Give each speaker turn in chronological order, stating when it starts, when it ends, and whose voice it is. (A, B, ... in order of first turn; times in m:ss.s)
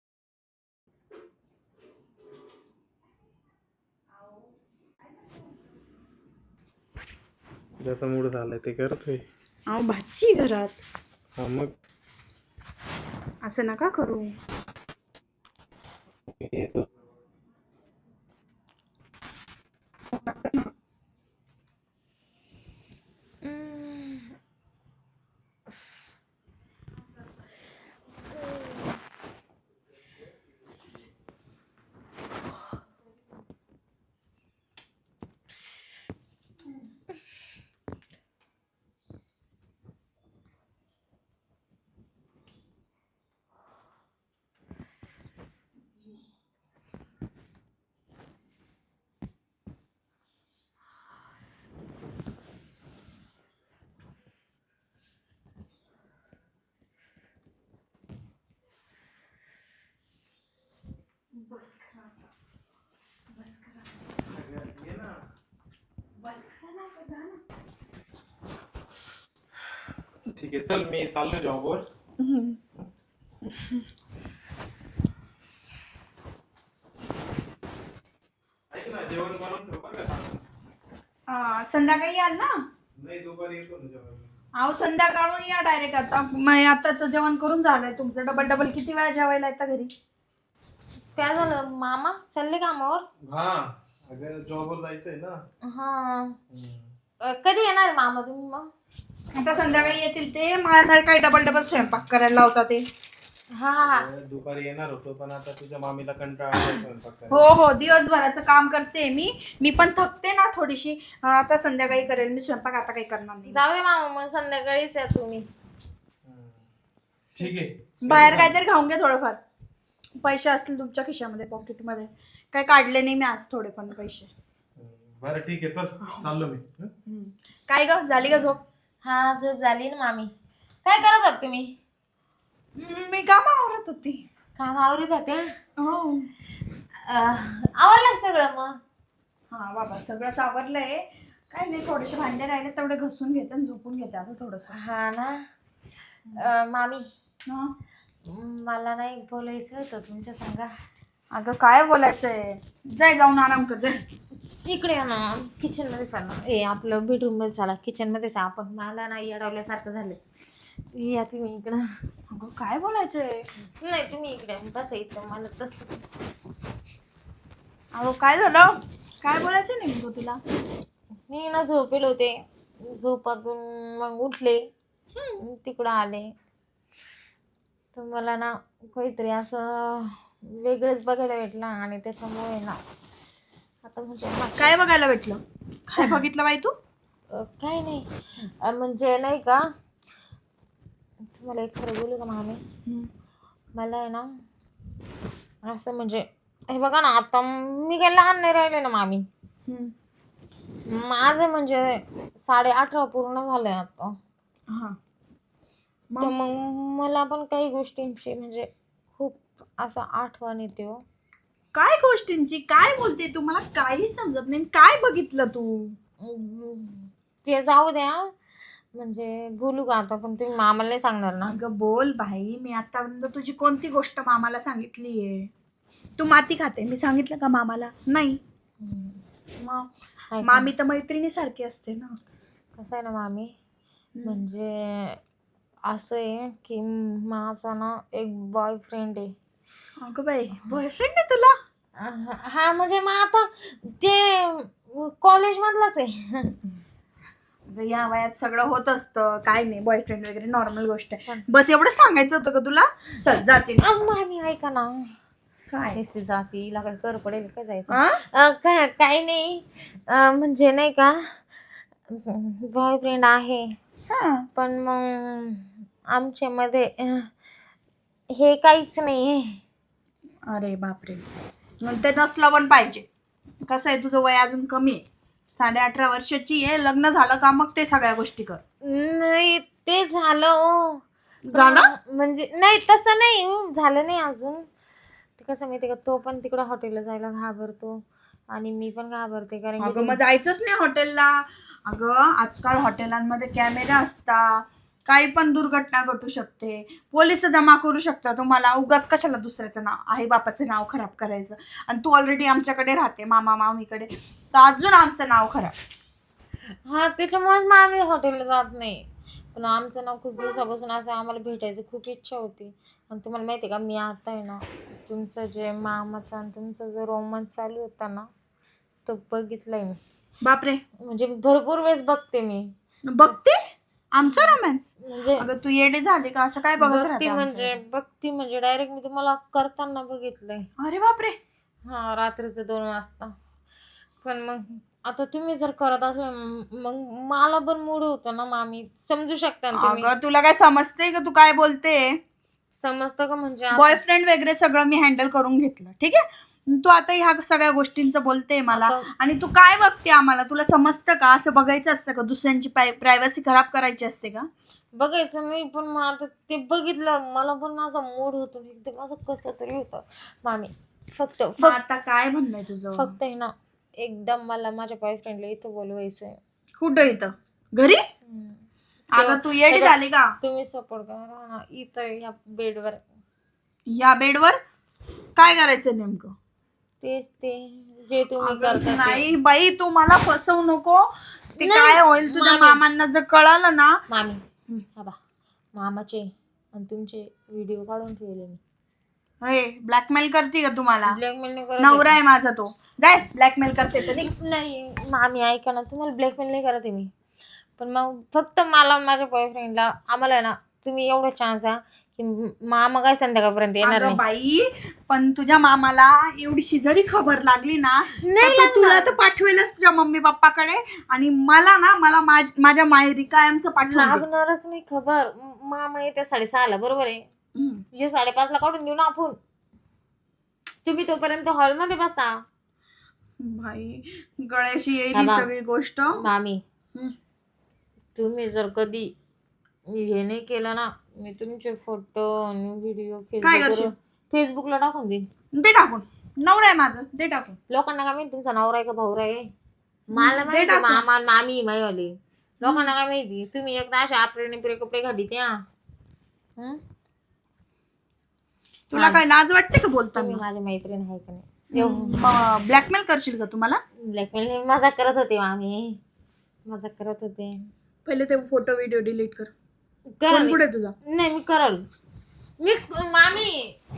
0:07.8-0:09.2 A
0:09.7-0:10.8 B
0:11.4-0:11.7 A
0:13.4-0:14.4 B
0:16.4-0:16.9 A
0:20.2-0:20.7 B
0:23.4-0:24.3 C
1:01.3-1:02.2 B
1:03.3-1:04.1 B
1:04.3-1:05.2 A
1:06.2-1:07.4 B
1:10.3-1:11.8 A
1:12.2-1:12.6 B
1:13.5-1:13.8 B
1:18.7-1:20.4 A
1:21.3-1:22.5 B
1:23.0-1:24.3 A
1:24.6-1:29.9 B
1:31.2-1:33.1 C
1:33.2-1:35.4 A
1:35.6-1:36.4 C
1:36.5-1:36.9 A
1:37.2-1:38.7 C
1:39.4-1:42.9 B
1:39.7-1:40.0 A
1:43.6-1:44.1 C
1:43.8-1:47.4 A
1:47.3-1:53.6 B
1:53.5-1:55.4 C
1:56.3-1:56.6 A
1:57.4-1:58.6 A
1:58.0-1:59.4 B
2:00.2-2:04.3 B
2:04.8-2:06.9 A
2:07.1-2:08.6 B
2:09.0-2:10.3 C
2:10.8-2:11.8 C
2:12.8-2:14.2 B
2:14.6-2:15.5 C
2:15.8-2:16.3 B
2:17.0-2:18.8 C
2:19.5-2:24.7 B
2:24.7-2:25.5 C
2:26.4-2:27.0 C
2:28.2-2:30.7 C
2:31.3-2:34.0 B
2:34.6-2:40.2 C
2:40.9-2:41.9 C
2:42.3-2:43.5 B
2:43.8-2:46.0 C
2:47.9-2:50.4 B
2:51.3-2:54.6 C
2:55.4-2:56.3 C
2:57.9-3:02.8 C
3:03.8-3:04.7 C
3:04.6-3:06.7 B
3:07.3-3:09.6 C
3:11.3-3:12.6 C
3:13.7-3:14.3 C
3:15.6-3:19.3 C
3:19.7-3:19.9 B
3:20.8-3:24.2 C
3:24.7-3:25.0 B
3:26.2-3:31.0 C
3:31.7-3:36.0 B
3:36.2-3:38.4 C
3:38.9-3:41.5 C
3:41.5-3:45.5 B
3:46.2-3:48.4 B
3:48.8-3:49.2 C
3:49.6-3:49.9 B
3:50.3-3:50.7 C
3:50.4-3:52.2 B
3:52.8-3:53.5 C
3:54.2-3:54.4 B
3:54.2-3:55.2 C
3:55.9-3:59.4 C
4:00.0-4:01.5 B
4:02.0-4:06.6 C
4:07.7-4:13.8 B
4:13.8-4:15.2 C
4:15.7-4:16.0 B
4:16.0-4:21.6 C
4:17.9-4:18.2 B
4:22.1-4:23.8 C
4:24.1-4:24.5 B
4:24.6-4:27.3 C
4:28.3-4:29.6 C
4:30.5-4:31.2 B
4:31.8-4:33.1 B
4:33.6-4:38.6 B
4:38.8-4:44.7 C
4:41.4-4:41.9 B
4:45.4-4:50.2 C
4:49.8-5:05.8 B
5:06.8-5:18.3 C
5:19.1-5:20.0 C
5:20.4-5:20.8 B
5:21.0-5:22.7 C
5:23.1-5:23.6 B
5:24.1-5:27.8 B
5:24.2-5:25.5 C
5:26.8-5:30.7 C
5:30.8-5:31.4 B
5:31.8-5:33.3 C
5:34.2-5:40.1 C
5:39.8-5:42.2 B
5:42.7-5:44.0 C
5:43.7-5:54.5 B
5:48.7-5:49.0 C
5:54.9-6:01.8 C
6:01.6-6:03.1 B
6:03.0-6:06.4 C
6:06.8-6:08.0 B
6:08.3-6:08.6 C
6:09.1-6:10.3 B
6:09.2-6:13.0 C
6:13.9-6:14.6 B
6:15.4-6:16.3 B
6:17.0-6:19.3 C
6:18.4-6:24.0 B
6:21.6-6:22.8 C
6:24.1-6:24.4 C
6:25.7-6:28.6 C
6:29.4-6:31.2 B
6:31.1-6:32.1 C
6:31.8-6:34.3 B
6:34.1-6:37.1 C
6:37.8-6:44.2 C
6:43.8-6:54.2 B
6:48.2-6:49.2 C
6:53.8-6:57.3 C
6:57.6-6:57.8 B
6:57.9-6:59.4 C
7:00.8-7:02.4 C
7:03.4-7:06.2 B
7:05.1-7:05.5 C
7:06.1-7:06.6 C
7:08.2-7:09.1 C
7:09.9-7:15.3 C
7:13.4-7:13.9 B
7:15.5-7:17.6 B
7:17.7-7:19.5 C
7:20.1-7:25.6 C
7:20.1-7:21.0 B
7:28.9-7:30.4 B
7:29.0-7:29.2 C
7:30.2-7:32.3 C
7:31.7-7:33.8 B
7:34.1-7:36.0 C
7:36.7-7:37.7 C
7:38.0-7:39.5 B
7:40.2-7:41.9 C
7:40.3-7:41.0 B
7:42.6-7:43.8 C